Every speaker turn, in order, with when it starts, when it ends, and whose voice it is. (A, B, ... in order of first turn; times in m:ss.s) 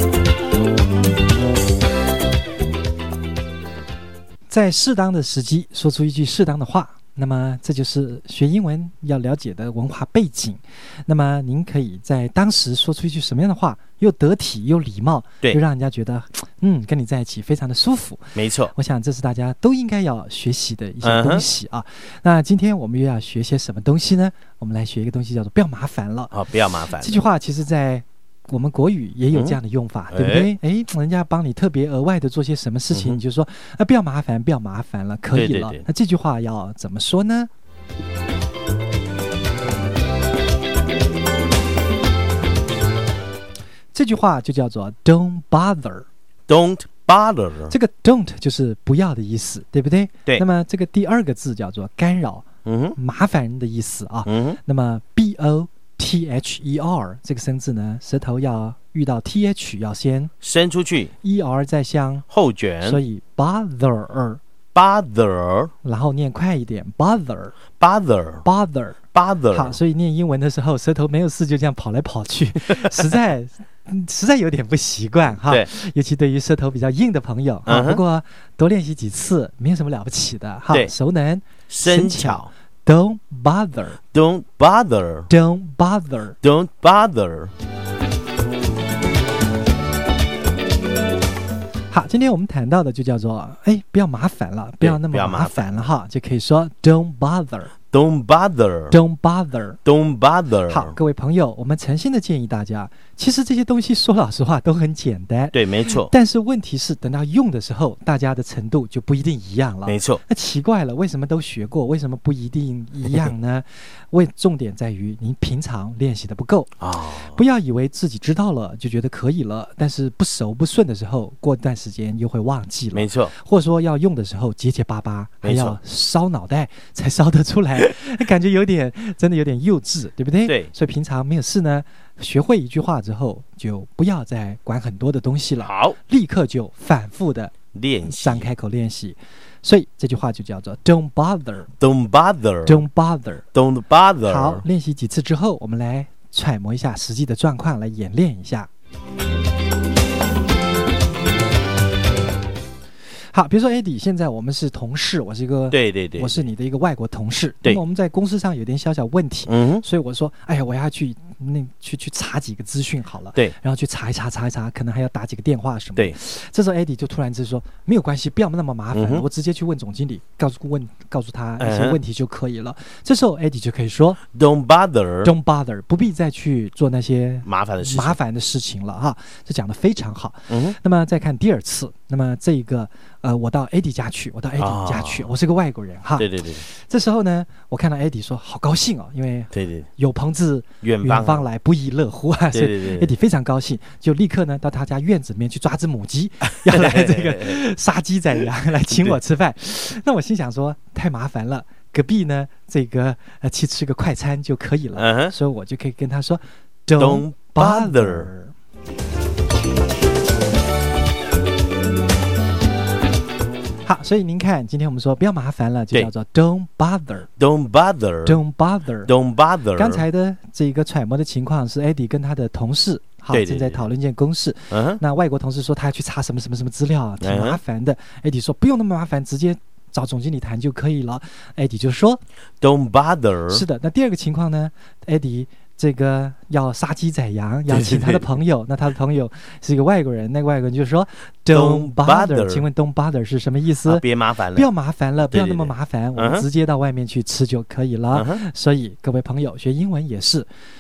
0:04.5-0:26.4 A
0:18.3-0:18.7 B
0:21.0-0:21.4 B
0:26.3-0:27.2 B
0:27.0-0:37.5 A
0:29.3-0:29.6 B
0:30.1-0:30.5 B
0:32.9-0:33.2 B
0:35.3-0:35.8 B
0:43.9-0:46.1 A
0:46.5-0:47.7 B
0:47.7-1:00.3 A
0:52.6-0:53.0 B
0:54.2-0:54.6 B
1:00.4-1:01.1 B
1:01.2-1:02.2 A
1:02.3-1:03.0 B
1:02.8-1:04.4 A
1:04.7-1:05.7 B
1:05.8-1:07.6 A
1:07.8-1:08.4 B
1:08.4-1:09.0 A
1:09.1-1:09.8 B
1:09.5-1:24.0 A
1:17.6-1:18.0 B
1:21.7-1:22.5 B
1:24.1-1:25.3 B
1:25.3-1:26.4 A
1:26.4-1:27.5 B
1:31.9-1:37.7 A
1:34.8-1:35.8 B
1:37.9-1:39.0 B
1:38.9-1:39.8 A
1:39.8-1:41.0 B
1:40.7-2:17.5 A
1:45.5-1:46.1 B
1:49.8-1:50.2 B
1:56.8-1:57.4 B
2:02.9-2:03.3 B
2:05.4-2:05.8 B
2:10.4-2:10.7 B
2:15.6-2:16.0 B
2:17.7-2:18.5 B
2:18.0-2:21.7 A
2:21.8-2:22.8 B
2:22.6-2:23.4 A
2:23.5-2:24.6 B
2:24.2-2:28.7 A
2:33.3-2:54.2 A
2:35.7-2:36.3 B
2:39.5-2:39.8 B
2:48.9-2:49.2 B
2:51.6-2:52.0 B
2:54.3-2:55.3 B
2:55.2-3:28.5 A
2:57.4-2:58.2 B
3:00.5-3:00.8 B
3:04.6-3:05.3 B
3:06.2-3:06.6 B
3:09.5-3:09.9 B
3:10.8-3:11.5 B
3:12.5-3:13.1 B
3:16.6-3:17.6 B
3:24.9-3:25.3 B
3:27.0-3:28.3 B
3:33.8-3:37.3 A
3:37.4-3:38.4 B
3:38.2-3:39.1 A
3:39.0-3:40.0 B
3:39.7-3:52.2 A
3:43.3-3:43.9 B
3:44.7-3:45.0 B
3:47.2-3:47.6 B
3:52.6-3:53.6 B
3:53.5-4:10.5 A
3:57.7-3:58.3 B
4:01.5-4:02.7 B
4:03.8-4:04.7 B
4:05.3-4:06.4 B
4:08.1-4:08.4 B